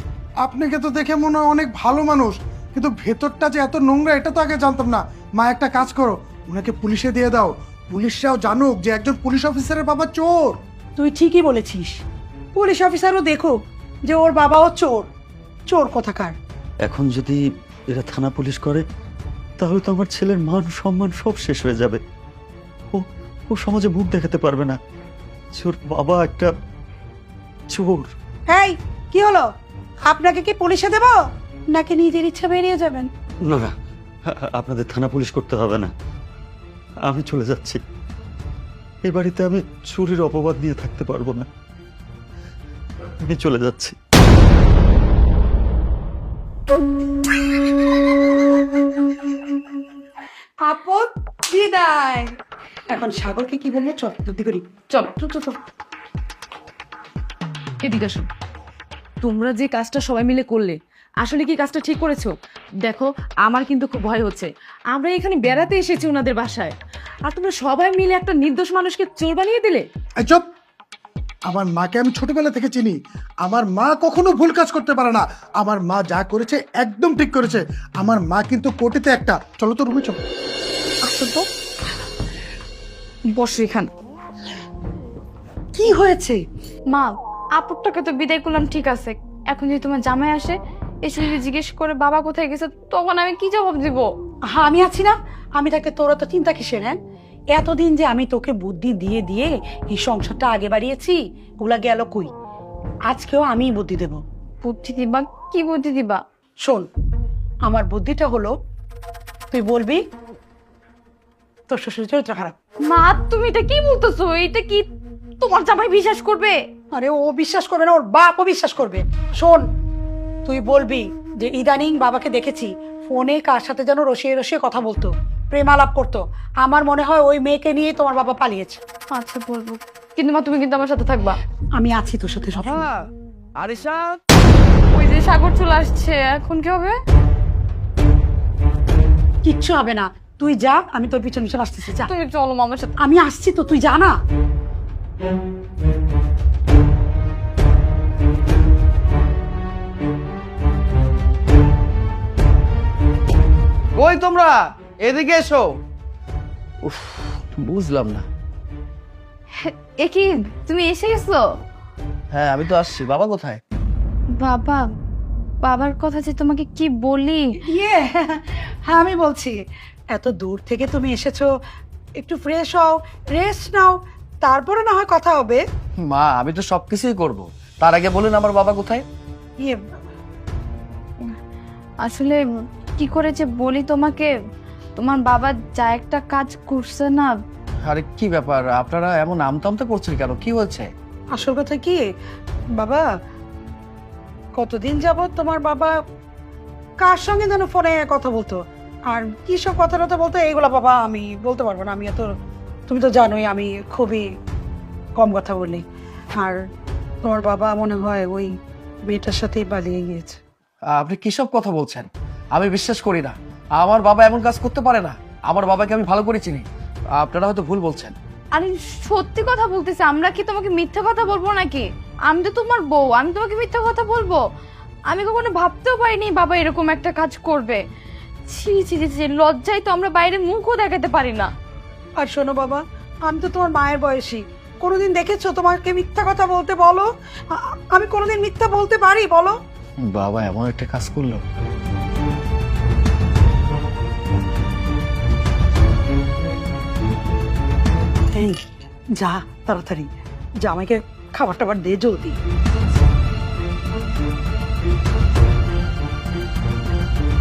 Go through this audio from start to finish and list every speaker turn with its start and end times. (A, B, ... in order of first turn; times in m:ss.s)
0:00.4-0:10.6 A
0:11.0-0:12.0 B
0:12.5-0:13.5 B
0:14.1-0:15.1 B
0:15.7-0:16.3 B
0:16.8-0:17.4 C
0:17.9-0:18.8 C
0:19.6-0:22.0 C
0:22.9-0:24.8 C
0:25.5-0:26.5 C
0:27.7-0:28.1 C
0:28.5-0:29.4 B
0:30.1-0:31.2 B
0:31.7-0:33.1 B
0:33.4-0:33.7 C
0:34.3-0:35.9 C
0:37.0-0:37.8 C
0:39.0-0:41.5 C
0:43.2-0:43.9 C
0:50.6-0:52.3 B
0:52.9-0:55.5 B
0:57.8-0:58.3 D
0:59.2-1:06.8 D
1:07.3-1:09.9 D
1:11.5-1:20.2 A
1:21.1-1:21.4 E
1:23.3-1:23.9 E
1:25.7-1:26.4 B
1:26.9-1:34.1 E
1:34.6-1:37.0 B
1:37.5-1:42.3 B
1:43.1-1:44.2 B
1:44.6-1:46.2 E
1:47.6-1:48.5 B
1:49.5-1:50.0 B
1:51.7-1:52.5 B
1:52.8-1:54.8 E
1:55.4-1:56.6 E
1:56.9-1:59.6 B
2:00.4-2:08.8 B
2:09.1-2:11.4 E
2:11.8-2:12.9 B
2:12.6-2:13.0 F
2:13.6-2:14.2 F
2:14.9-2:17.0 E
2:19.4-2:22.1 B
2:22.0-2:22.9 E
2:23.0-2:24.1 B
2:34.0-2:35.7 F
2:36.8-2:38.2 F
2:39.6-2:41.4 E
2:42.3-2:43.6 F
2:44.4-2:44.8 E
2:45.6-2:47.5 E
2:47.6-2:49.6 B
2:50.1-2:51.5 B
2:52.2-2:55.6 B
2:56.0-2:59.0 F
3:02.0-3:02.4 E
3:03.0-3:04.3 E
3:05.0-3:07.3 E
3:07.8-3:10.9 F
3:11.3-3:12.0 B
3:12.8-3:13.0 B
3:14.6-3:15.9 B
3:17.0-3:18.6 B
3:19.1-3:22.3 B
3:22.9-3:24.2 B
3:25.2-3:25.8 B
3:27.2-3:28.5 B
3:29.1-3:30.4 B
3:30.9-3:36.6 F
3:37.2-3:38.1 F
3:38.5-3:44.4 E
3:45.1-3:47.8 E
3:48.5-3:51.5 E
3:52.2-3:59.6 B
4:00.0-4:01.4 F
4:08.3-4:08.6 B
4:09.2-4:10.1 B
4:10.6-4:12.4 B